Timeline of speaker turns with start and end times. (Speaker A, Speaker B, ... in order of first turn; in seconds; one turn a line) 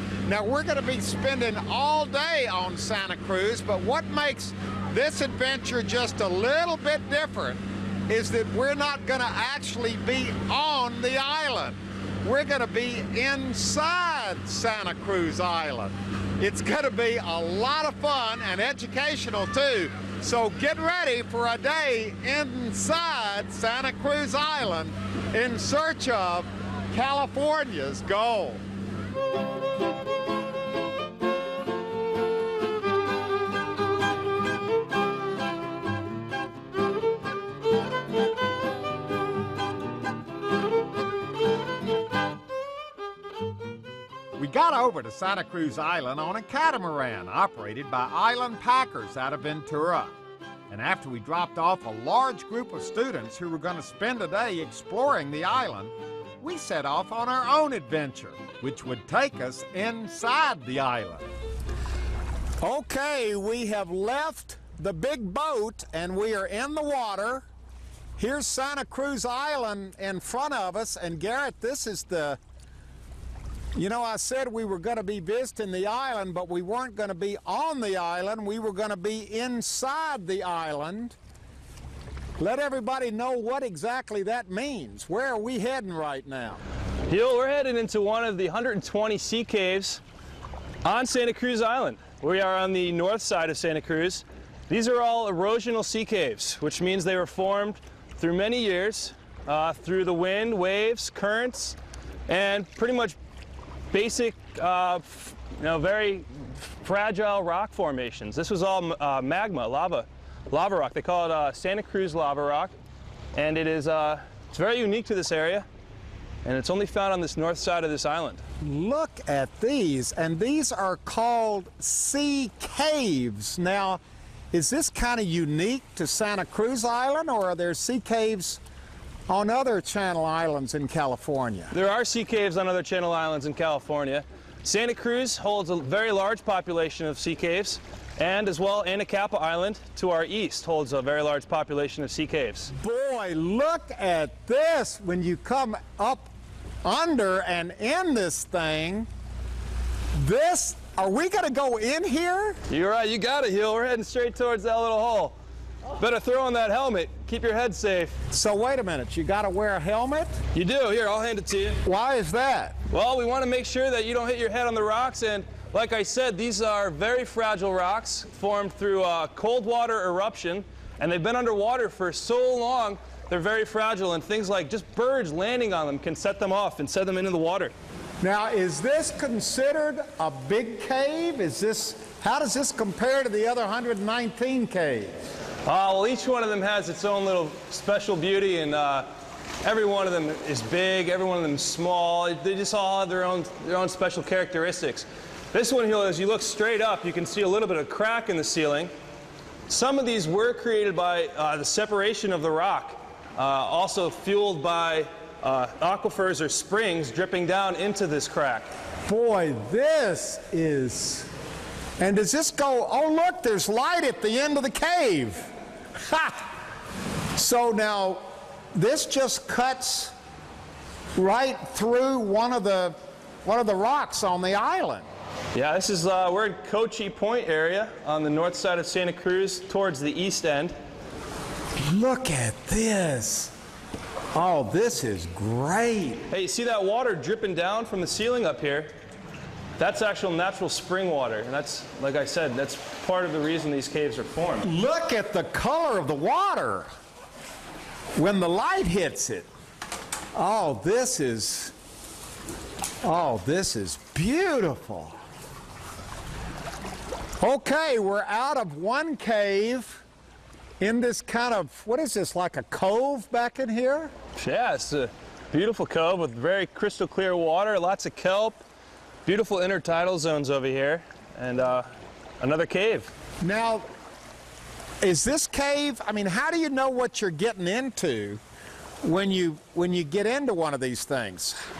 Speaker A: 0.3-28.6
Speaker A: 44.4-50.1
Speaker A: 50.7-61.2
Speaker A: 62.6-67.5
Speaker A: 68.2-72.4
Speaker A: 73.8-81.2
Speaker A: 82.4-86.6
Speaker B: 87.1-90.0
Speaker B: 90.8-101.8
Speaker B: 102.3-103.2
Speaker B: 103.9-112.7
Speaker B: 113.3-115.7
Speaker B: 116.4-118.4
Speaker A: 118.6-124.0
Speaker A: 124.5-128.6
Speaker A: 129.3-131.7
Speaker B: 131.7-142.7
Speaker A: 142.8-146.3
Speaker A: 146.8-149.1
Speaker A: 150.2-152.6
Speaker B: 152.7-155.3
Speaker B: 156.0-158.2
Speaker A: 158.3-160.4
Speaker B: 160.5-161.8
Speaker A: 161.8-162.8
Speaker B: 162.9-177.7
Speaker A: 178.2-185.1
Speaker B: 185.7-189.1
Speaker B: 189.6-198.9
Speaker B: 199.7-208.7
Speaker A: 209.1-211.3
Speaker A: 212.0-216.5
Speaker A: 217.3-220.1
Speaker A: 221.2-225.1
Speaker B: 225.5-230.7
Speaker A: 231.8-233.5
Speaker A: 234.3-236.2
Speaker B: 236.3-238.9
Speaker B: 239.8-244.7
Speaker A: 244.6-246.9
Speaker A: 248.2-249.5
Speaker A: 250.3-251.7
Speaker A: 253.0-255.2
Speaker A: 257.4-260.0
Speaker A: 260.8-264.1
Speaker B: 264.4-268.6
Speaker B: 269.2-271.9
Speaker B: 272.4-273.1
Speaker A: 273.4-273.9
Speaker A: 275.0-278.4
Speaker A: 279.0-281.6